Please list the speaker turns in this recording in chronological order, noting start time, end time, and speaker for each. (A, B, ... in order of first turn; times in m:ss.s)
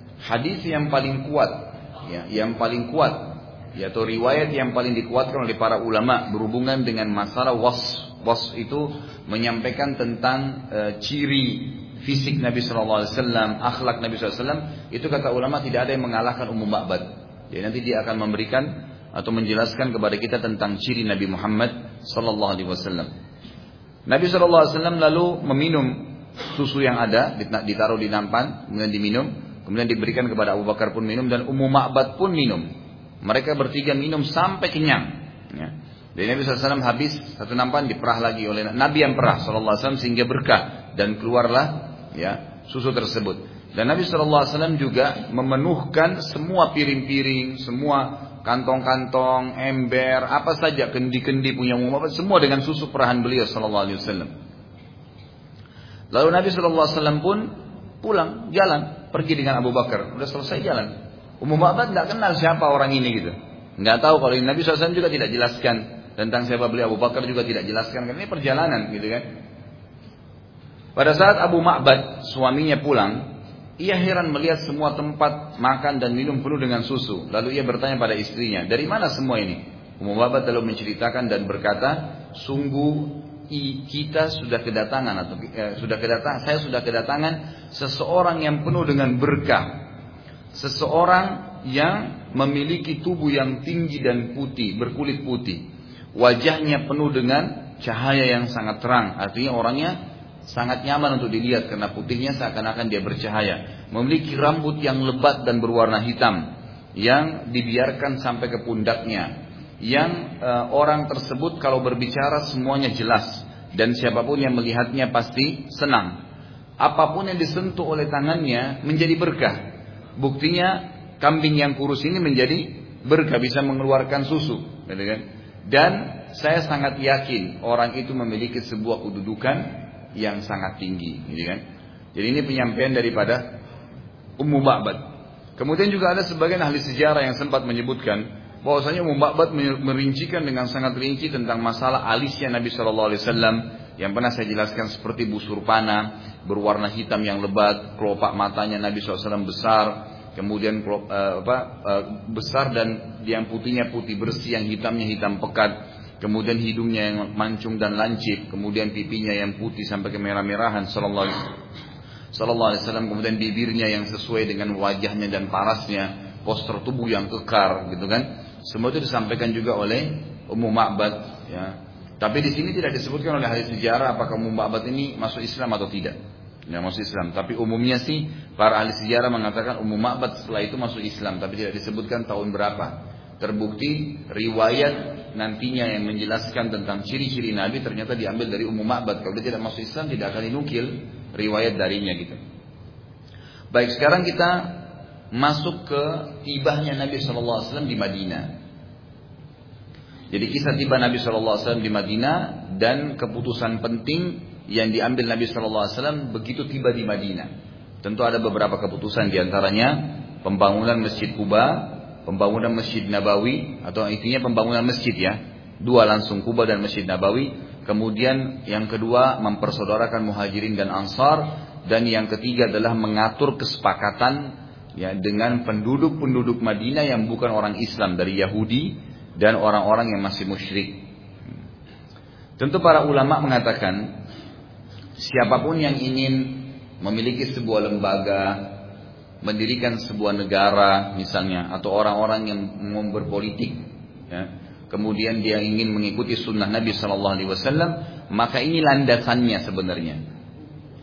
0:00.2-0:23.1 A
0:24.1-0:32.7 A
0:33.2-0:54.3 A
0:56.1-1:09.2 A
1:11.0-1:29.8 A
1:30.5-1:56.2 A
1:56.8-1:59.6 A
2:00.2-2:11.6 A
2:12.1-2:13.4 A
2:14.4-2:15.0 A
2:15.6-2:41.5 A
2:42.3-2:56.2 A
2:56.7-3:12.4 A
3:13.7-3:18.5 A
3:20.3-3:27.5 A
3:28.0-3:51.1 A
3:52.6-3:54.2 A
3:55.2-3:58.7 A
3:59.4-4:10.2 A